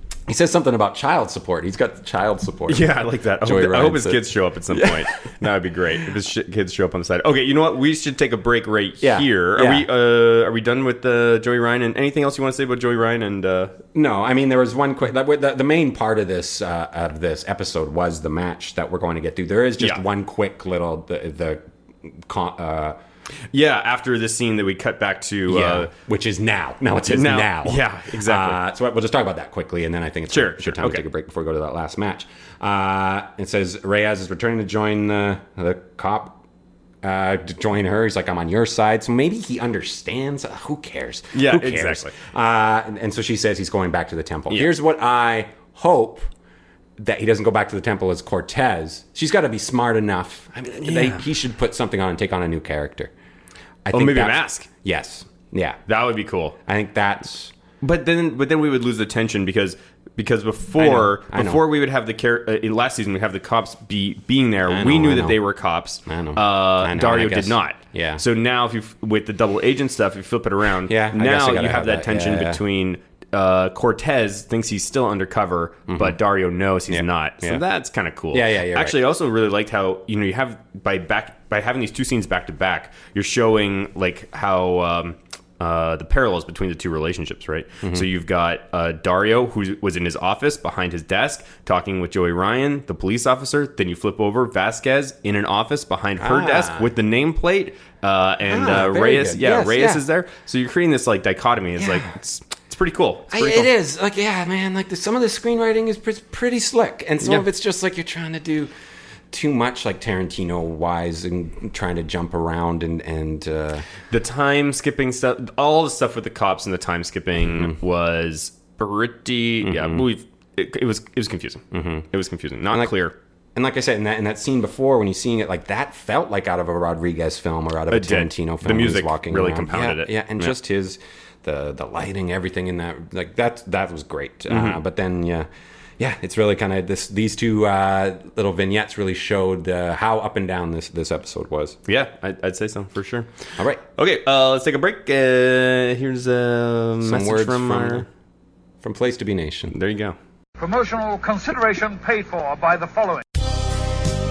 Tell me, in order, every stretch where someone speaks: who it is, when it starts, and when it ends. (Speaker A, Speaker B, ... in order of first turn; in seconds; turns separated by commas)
Speaker A: 0.3-5.1, Speaker B: 2.7-13.8, Speaker A: 9.0-9.9, Speaker A: 13.9-23.0, Speaker B: 23.5-25.9, Speaker A: 25.5-36.4, Speaker B: 27.0-28.6, Speaker B: 30.3-31.0, Speaker A: 37.0-46.3, Speaker B: 41.3-42.1, Speaker A: 47.0-53.1, Speaker B: 50.8-51.2, Speaker A: 53.8-55.8, Speaker B: 53.9-54.7, Speaker B: 55.9-56.5, Speaker A: 56.6-57.5, Speaker B: 57.8-103.7, Speaker A: 60.8-61.6, Speaker A: 64.7-65.4, Speaker A: 66.0-68.2, Speaker A: 70.8-72.6, Speaker A: 75.9-76.2, Speaker A: 76.9-77.6, Speaker A: 78.3-79.0, Speaker A: 96.2-96.9, Speaker A: 98.4-100.0, Speaker A: 101.8-102.1, Speaker A: 103.3-108.7, Speaker B: 107.2-107.5, Speaker A: 109.3-113.9, Speaker B: 114.1-123.1, Speaker A: 119.6-120.0, Speaker A: 121.7-122.1, Speaker A: 123.5-135.5, Speaker B: 127.9-130.5, Speaker B: 134.5-134.8, Speaker A: 136.0-141.8, Speaker B: 141.9-148.1, Speaker A: 143.6-143.8, Speaker A: 147.0-148.1, Speaker A: 148.8-149.8, Speaker B: 149.7-150.2, Speaker C: 150.6-153.2